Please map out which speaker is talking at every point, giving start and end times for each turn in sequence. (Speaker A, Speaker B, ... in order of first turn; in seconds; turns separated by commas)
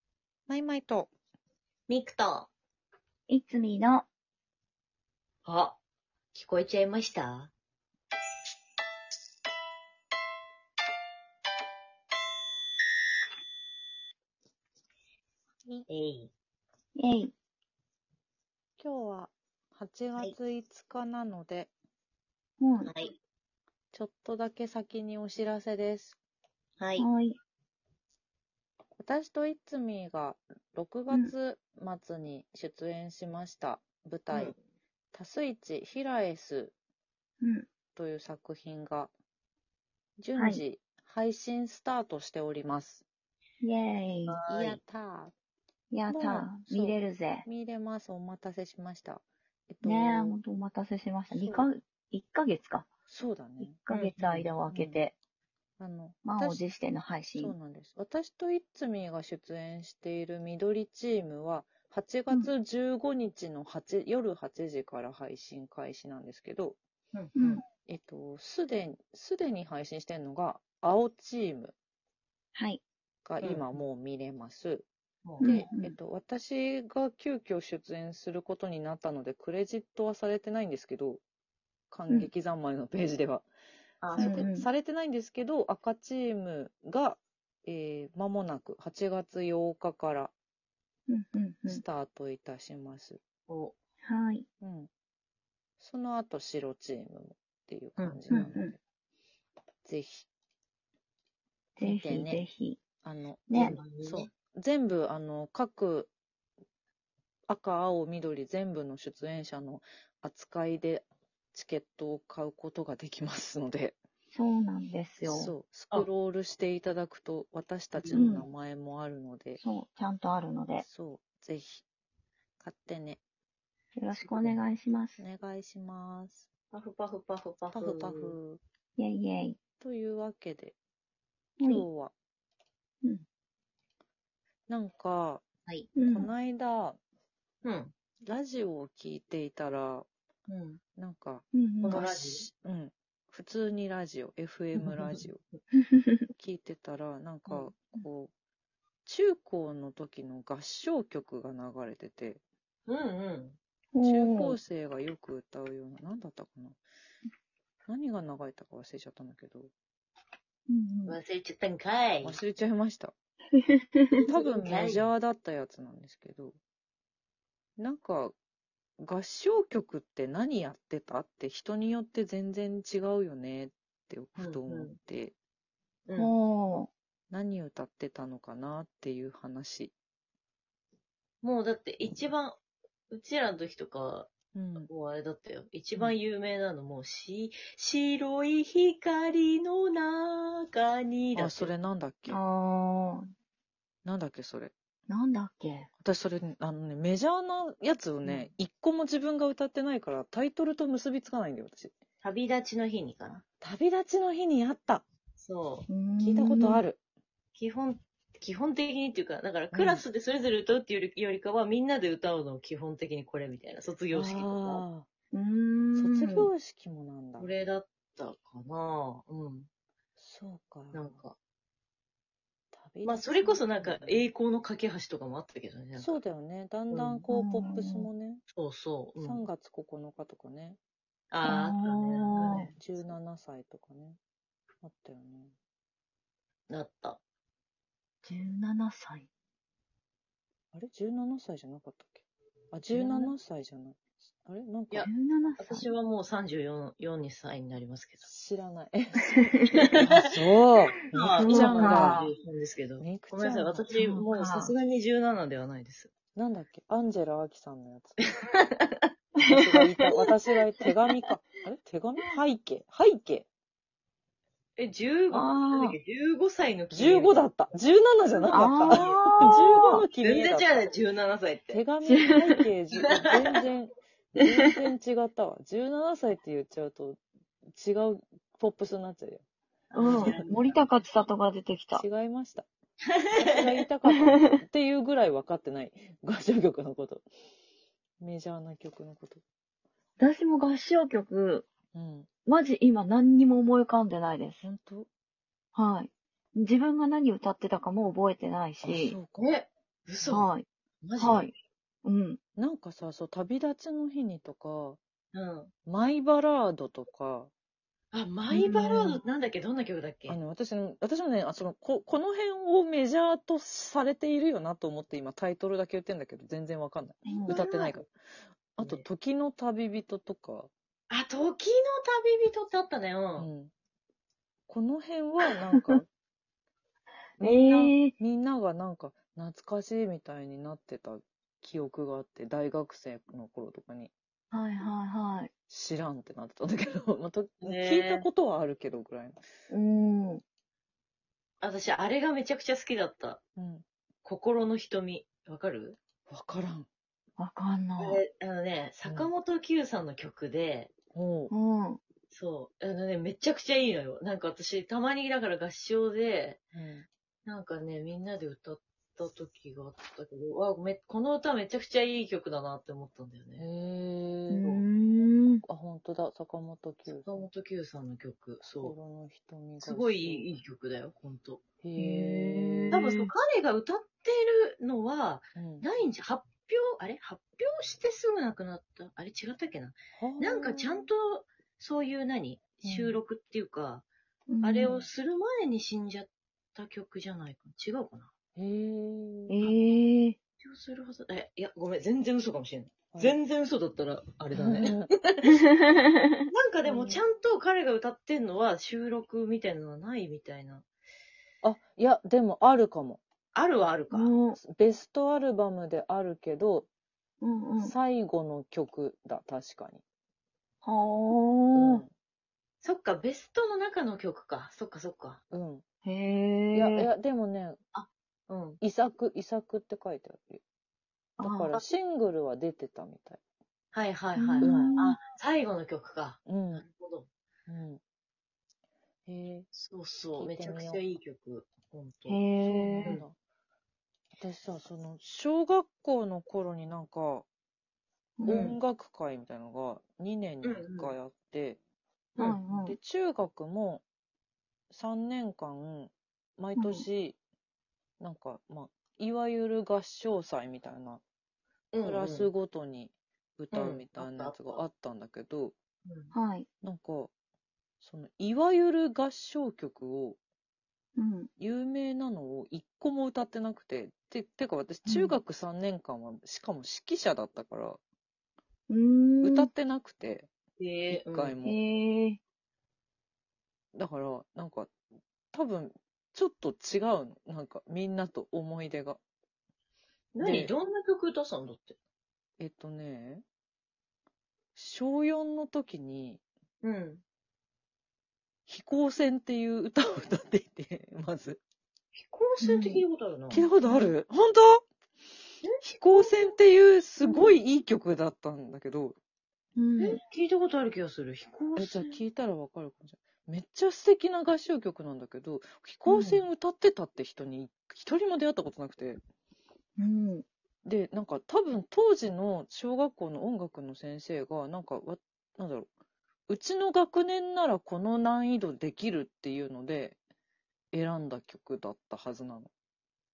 Speaker A: 0.5-1.1, Speaker B: 1.9-2.5, Speaker C: 3.3-4.1, Speaker B: 5.5-5.8, Speaker B: 6.3-7.5, Speaker B: 15.9-16.3, Speaker C: 17.0-17.3, Speaker A: 18.8-21.7, Speaker C: 22.6-22.9, Speaker B: 22.9-23.1, Speaker A: 23.9-26.2, Speaker B: 26.8-27.1, Speaker C: 27.0-27.4, Speaker A: 29.0-34.5, Speaker B: 34.3-34.5, Speaker A: 35.1-36.7, Speaker C: 37.4-37.7, Speaker A: 38.0-39.1, Speaker A: 40.2-43.0, Speaker C: 40.4-40.6, Speaker C: 43.6-44.4, Speaker B: 44.3-44.8, Speaker A: 44.5-45.4, Speaker C: 45.9-47.5, Speaker A: 46.1-50.4, Speaker C: 49.8-52.9, Speaker A: 51.3-51.7, Speaker A: 53.1-53.8, Speaker C: 53.6-55.1, Speaker B: 53.9-54.5, Speaker A: 54.7-55.0, Speaker A: 55.8-56.6, Speaker C: 56.2-57.5, Speaker A: 57.4-66.8, Speaker B: 67.1-67.6, Speaker C: 67.4-67.6, Speaker A: 67.9-71.8, Speaker C: 72.5-72.8, Speaker A: 73.2-74.9, Speaker B: 73.4-73.8, Speaker B: 75.2-75.6, Speaker C: 75.4-76.0, Speaker A: 75.4-81.2, Speaker A: 81.9-83.5, Speaker B: 84.0-84.5, Speaker A: 84.2-90.3, Speaker C: 84.2-84.7, Speaker C: 91.1-91.8, Speaker A: 91.7-93.2, Speaker B: 93.5-93.8, Speaker C: 94.0-94.5, Speaker A: 94.6-94.9, Speaker A: 95.8-98.8, Speaker B: 98.0-98.5, Speaker C: 98.3-98.7, Speaker A: 99.8-100.3, Speaker C: 101.8-102.8, Speaker A: 101.8-102.4, Speaker A: 103.0-106.1, Speaker C: 103.5-103.8, Speaker B: 103.5-104.3, Speaker A: 107.5-114.0, Speaker C: 114.3-115.5, Speaker A: 115.2-119.6, Speaker B: 118.0-118.4, Speaker C: 118.1-118.5, Speaker C: 119.6-120.8, Speaker A: 120.8-121.8, Speaker A: 122.6-123.2, Speaker C: 124.0-125.2, Speaker B: 124.2-124.6, Speaker A: 125.2-126.5, Speaker B: 126.7-128.4, Speaker A: 127.7-128.6, Speaker C: 129.0-129.6, Speaker A: 129.8-130.8, Speaker C: 131.6-131.9, Speaker A: 131.6-132.1, Speaker A: 134.7-135.4, Speaker C: 136.0-136.3, Speaker A: 136.1-137.0, Speaker B: 137.6-137.9, Speaker A: 138.3-140.1, Speaker B: 140.5-140.8, Speaker A: 141.0-145.4, Speaker C: 141.5-142.0, Speaker B: 141.8-142.5, Speaker B: 144.8-145.2, Speaker C: 145.8-146.3, Speaker A: 146.4-148.3, Speaker B: 147.5-147.7, Speaker A: 149.1-152.4, Speaker B: 152.9-153.6, Speaker C: 153.9-154.6, Speaker A: 154.0-156.8, Speaker A: 157.9-159.7, Speaker C: 160.7-161.2, Speaker B: 161.1-162.4, Speaker A: 162.2-163.1, Speaker C: 163.5-164.2, Speaker B: 164.2-165.1, Speaker A: 164.3-166.6, Speaker A: 167.8-168.3, Speaker A: 169.0-175.3, Speaker B: 174.4-174.9, Speaker B: 176.1-176.3, Speaker C: 176.2-176.9, Speaker A: 177.3-179.9, Speaker B: 181.4-182.6, Speaker B: 183.1-191.7, Speaker A: 184.5-184.9, Speaker A: 191.3-192.4, Speaker C: 192.3-193.3, Speaker A: 194.1-194.7, Speaker C: 195.1-195.9, Speaker A: 196.0-201.9, Speaker B: 198.2-198.5, Speaker B: 202.2-203.4, Speaker A: 203.6-205.0, Speaker B: 205.4-205.9, Speaker C: 205.9-206.8, Speaker A: 206.2-207.0, Speaker B: 207.6-214.8, Speaker A: 209.7-210.1, Speaker A: 214.1-215.1, Speaker C: 215.3-216.5, Speaker A: 215.9-217.5, Speaker B: 217.4-219.7, Speaker A: 220.2-221.2, Speaker B: 220.9-221.4, Speaker A: 222.7-224.2, Speaker B: 223.0-226.2, Speaker A: 226.0-228.4, Speaker B: 226.9-227.3, Speaker C: 227.3-228.1, Speaker B: 228.5-229.4, Speaker A: 229.2-230.8, Speaker B: 231.3-232.8, Speaker C: 231.4-232.7, Speaker A: 232.8-234.2, Speaker A: 234.8-235.5, Speaker B: 236.7-237.2, Speaker C: 238.2-239.3, Speaker A: 240.7-245.1, Speaker B: 242.9-243.3, Speaker B: 244.9-248.3, Speaker C: 245.0-245.9, Speaker A: 248.2-249.3, Speaker C: 249.3-249.7, Speaker B: 249.7-250.2, Speaker A: 250.0-252.2, Speaker B: 251.1-256.1, Speaker C: 251.3-252.3, Speaker A: 253.0-253.9, Speaker C: 253.9-254.7, Speaker A: 256.4-258.2, Speaker B: 258.5-260.3, Speaker A: 259.5-263.5, Speaker B: 264.8-267.5, Speaker C: 265.3-266.0, Speaker A: 266.9-271.0, Speaker C: 268.5-270.0, Speaker B: 268.9-271.8, Speaker A: 271.7-277.2, Speaker C: 272.1-272.6, Speaker B: 273.0-273.6, Speaker A: 277.7-279.4, Speaker B: 279.9-280.9, Speaker C: 279.9-282.0, Speaker A: 280.0-280.4, Speaker A: 281.9-282.7, Speaker A: 283.4-287.2, Speaker A: 288.2-289.4, Speaker C: 290.2-291.7, Speaker A: 291.9-292.3, Speaker C: 292.5-294.6, Speaker A: 294.6-295.1, Speaker C: 295.8-299.2, Speaker A: 298.8-299.5, Speaker B: 299.4-300.5, Speaker C: 300.3-300.7, Speaker B: 301.0-301.5, Speaker C: 301.2-302.4, Speaker A: 302.6-305.0, Speaker B: 305.3-305.7, Speaker A: 305.9-307.5, Speaker B: 308.1-310.4, Speaker C: 308.5-309.2, Speaker A: 310.3-318.1, Speaker C: 317.3-317.6, Speaker B: 317.5-318.0, Speaker A: 318.8-320.7, Speaker B: 318.8-319.1, Speaker B: 321.1-323.5, Speaker A: 323.4-323.7, Speaker A: 324.7-326.1, Speaker A: 327.4-334.1, Speaker C: 327.4-328.1, Speaker C: 334.5-335.5, Speaker A: 335.7-339.4, Speaker B: 337.6-338.3, Speaker C: 339.7-340.4, Speaker B: 341.6-343.4, Speaker A: 343.6-343.9, Speaker B: 344.2-346.0, Speaker A: 346.3-346.9, Speaker C: 347.4-348.2, Speaker B: 348.0-350.9, Speaker A: 351.1-351.5, Speaker C: 351.5-352.0, Speaker B: 352.3-356.6, Speaker A: 356.8-357.1, Speaker B: 357.5-363.6, Speaker A: 363.6-364.7, Speaker C: 364.5-365.6, Speaker A: 365.6-367.4, Speaker B: 367.1-368.9, Speaker A: 368.6-370.6, Speaker B: 369.8-371.6, Speaker A: 371.8-373.1, Speaker C: 372.0-373.2, Speaker B: 372.9-384.1, Speaker A: 375.6-375.9, Speaker A: 380.2-381.1, Speaker A: 382.9-383.2, Speaker C: 384.5-385.0, Speaker B: 384.6-388.3, Speaker A: 388.6-389.6, Speaker C: 389.5-390.4, Speaker B: 390.6-395.6, Speaker A: 393.1-393.4, Speaker A: 394.5-395.1, Speaker C: 395.8-396.4, Speaker B: 396.5-400.9, Speaker A: 401.6-403.2, Speaker B: 403.5-404.3, Speaker C: 404.1-404.6, Speaker A: 404.6-406.9, Speaker C: 407.4-407.9, Speaker A: 407.8-410.0, Speaker C: 410.8-412.0, Speaker A: 411.8-412.1, Speaker B: 412.8-415.4, Speaker A: 415.5-415.8, Speaker C: 416.1-417.1, Speaker A: 416.7-417.8, Speaker B: 417.9-418.8, Speaker A: 418.8-420.6, Speaker C: 421.4-421.8, Speaker A: 421.4-423.4, Speaker B: 423.9-427.3, Speaker C: 424.4-425.2, Speaker A: 424.6-425.0, Speaker A: 426.5-426.8, Speaker A: 427.7-428.0, Speaker A: 429.3-429.7, Speaker B: 429.7-432.4, Speaker A: 430.4-431.0, Speaker C: 432.3-433.2, Speaker A: 432.6-433.4, Speaker A: 434.4-437.4, Speaker C: 438.4-438.8, Speaker A: 438.5-441.8, Speaker B: 438.5-438.8, Speaker B: 440.6-441.1, Speaker C: 442.4-443.0, Speaker A: 442.8-444.0, Speaker A: 444.9-447.4, Speaker C: 446.8-447.1, Speaker A: 448.2-451.2, Speaker B: 451.9-452.5, Speaker A: 452.0-455.8, Speaker B: 453.7-454.8, Speaker B: 456.1-456.3, Speaker C: 456.3-456.7, Speaker A: 456.8-457.3, Speaker A: 458.0-460.4, Speaker C: 461.2-461.5, Speaker A: 461.6-468.0, Speaker C: 465.1-465.4, Speaker C: 468.9-469.7, Speaker A: 469.4-470.5, Speaker B: 470.8-471.6, Speaker A: 471.1-471.8, Speaker C: 471.6-472.4, Speaker A: 473.9-474.9, Speaker A: 475.5-479.2, Speaker B: 480.4-482.0, Speaker A: 480.4-480.7, Speaker A: 482.6-483.4, Speaker A: 484.8-486.4, Speaker B: 486.8-487.2, Speaker A: 488.7-491.6, Speaker B: 492.1-493.7, Speaker C: 492.6-493.0, Speaker A: 493.5-494.8, Speaker C: 493.9-494.1, Speaker B: 495.6-496.3, Speaker A: 495.8-499.2, Speaker B: 497.2-497.5, Speaker C: 499.8-500.2, Speaker B: 500.0-502.2, Speaker A: 501.8-509.2, Speaker C: 506.1-506.4, Speaker C: 510.0-510.5, Speaker A: 510.9-515.9, Speaker A: 516.5-520.2, Speaker A: 520.9-522.7